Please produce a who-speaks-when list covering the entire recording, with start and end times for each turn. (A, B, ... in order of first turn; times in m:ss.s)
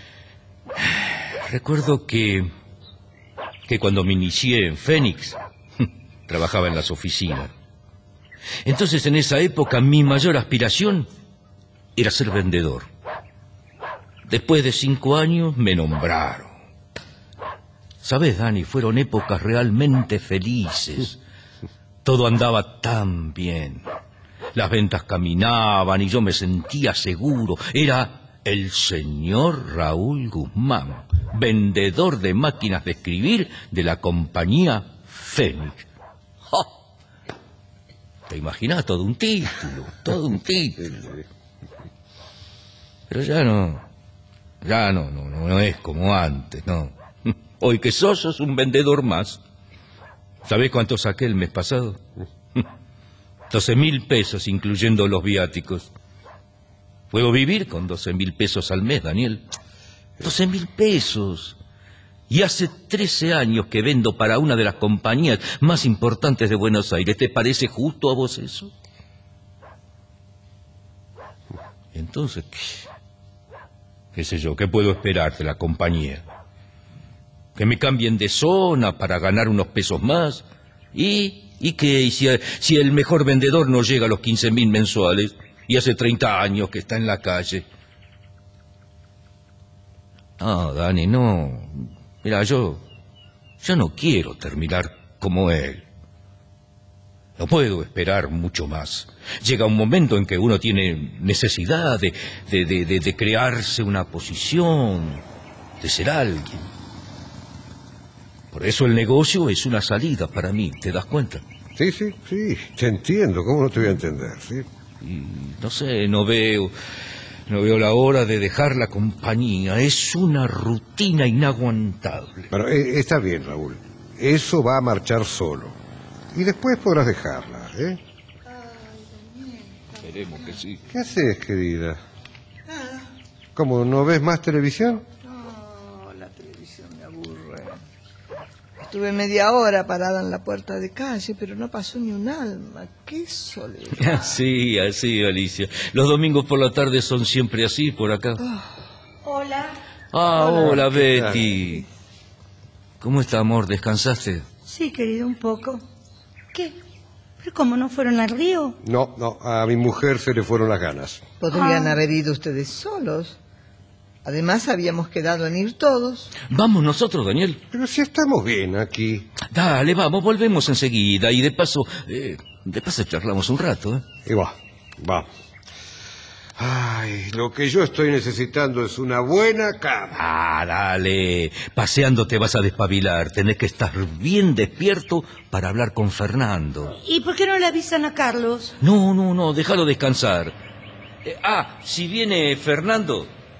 0:00.8-0:02.5 A
0:03.7-0:07.5 A
0:08.6-0:11.1 A
0:12.0-0:12.9 A
0:14.3-0:16.5 A
0:18.0-0:21.2 A
0:22.0-0:23.8 A
0:24.6-0:35.9 A
0:38.3-0:41.1 A
0:43.1-0:43.8 A
0:44.6-0:49.4 A
0:50.4-0:52.0 A
0:53.5-0:55.9 A
0:57.1-0:59.4 A
1:00.2-1:01.6 A
1:02.3-1:08.7 A
1:11.9-1:12.9 A
1:14.2-1:16.2 A
1:17.6-1:27.6 A
1:30.4-1:32.8 A
1:33.6-1:35.8 A
1:37.4-1:45.2 A
1:45.8-1:46.7 A
1:48.5-1:51.4 A
1:51.8-1:54.7 B
1:55.0-1:56.7 A
1:57.5-2:02.5 A
2:02.5-2:05.8 B
2:06.3-2:08.0 B
2:08.5-2:10.5 C
2:10.0-2:10.8 A
2:10.9-2:12.0 B
2:12.7-2:13.0 C
2:13.6-2:15.0 B
2:15.2-2:17.8 C
2:18.8-2:24.4 C
2:24.0-2:28.4 A
2:28.4-2:28.7 C
2:29.2-2:29.8 D
2:30.1-2:31.8 A
2:30.4-2:31.6 B
2:33.0-2:34.4 A
2:34.7-2:35.8 D
2:37.4-2:38.8 D
2:38.8-2:41.2 B
2:41.4-2:43.4 C
2:41.5-2:42.0 D
2:44.2-2:46.3 C
2:46.5-2:47.6 A
2:47.7-2:49.3 B
2:49.5-2:54.0 A
2:54.3-2:55.3 B
2:56.6-3:00.2 B
3:00.2-3:07.0 A
3:07.0-3:08.7 D
3:08.8-3:10.6 A
3:11.2-3:13.3 A